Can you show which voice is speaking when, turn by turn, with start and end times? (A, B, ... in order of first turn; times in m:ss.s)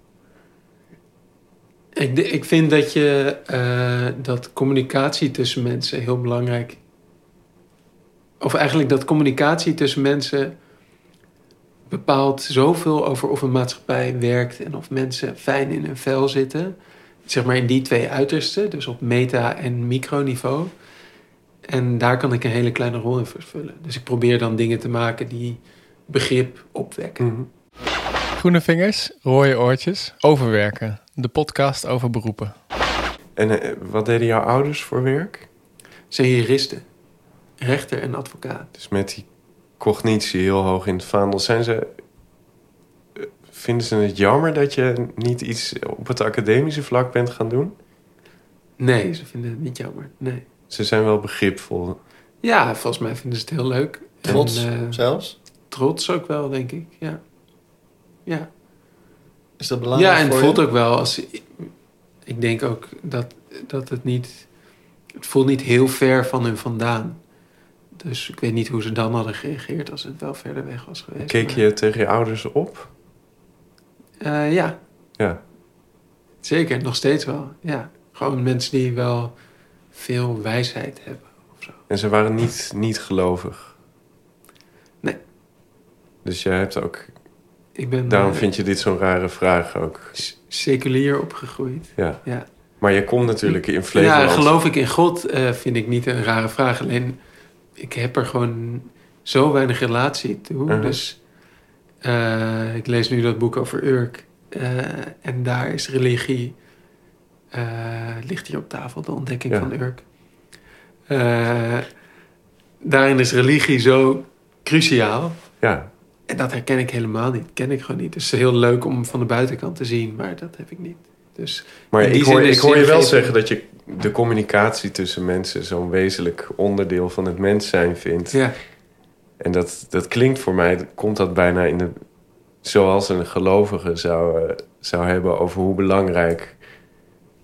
0:02.0-0:06.8 A
0:08.4-0:10.5 A
0:11.9-0:16.7 A
0:17.2-0:20.7 A
0:21.7-0:27.3 A
0:27.2-0:27.5 B
0:28.4-0:32.5 C
0:33.4-0:35.5 B
0:36.1-0:36.8 A
0:37.6-0:38.7 A
0:38.8-0:39.2 B
0:39.8-0:41.9 B
0:43.2-0:47.8 B
0:48.8-0:50.4 A
0:50.7-0:52.0 B
0:52.4-0:55.0 A
0:54.2-0:55.4 D
0:55.7-0:57.2 A
0:59.6-1:00.6 D
0:59.9-1:01.7 A
1:02.2-1:04.5 A
1:05.2-1:07.2 A
1:07.9-1:11.6 A
1:11.2-1:12.9 B
1:14.2-1:14.8 A
1:16.4-1:19.3 A
1:19.9-1:21.8 A
1:21.9-1:23.8 B
1:26.2-1:27.1 B
1:27.8-1:28.5 A
1:28.1-1:30.2 B
1:30.2-1:32.4 A
1:32.8-1:34.6 B
1:33.5-1:37.2 A
1:37.8-1:41.2 A
1:40.7-1:41.0 B
1:42.0-1:46.6 A
1:47.5-1:50.0 A
1:51.1-1:51.9 A
1:52.8-1:55.4 A
1:55.6-1:55.9 B
1:56.3-2:03.3 A
2:01.9-2:08.4 B
2:09.4-2:12.0 B
2:12.6-2:16.6 B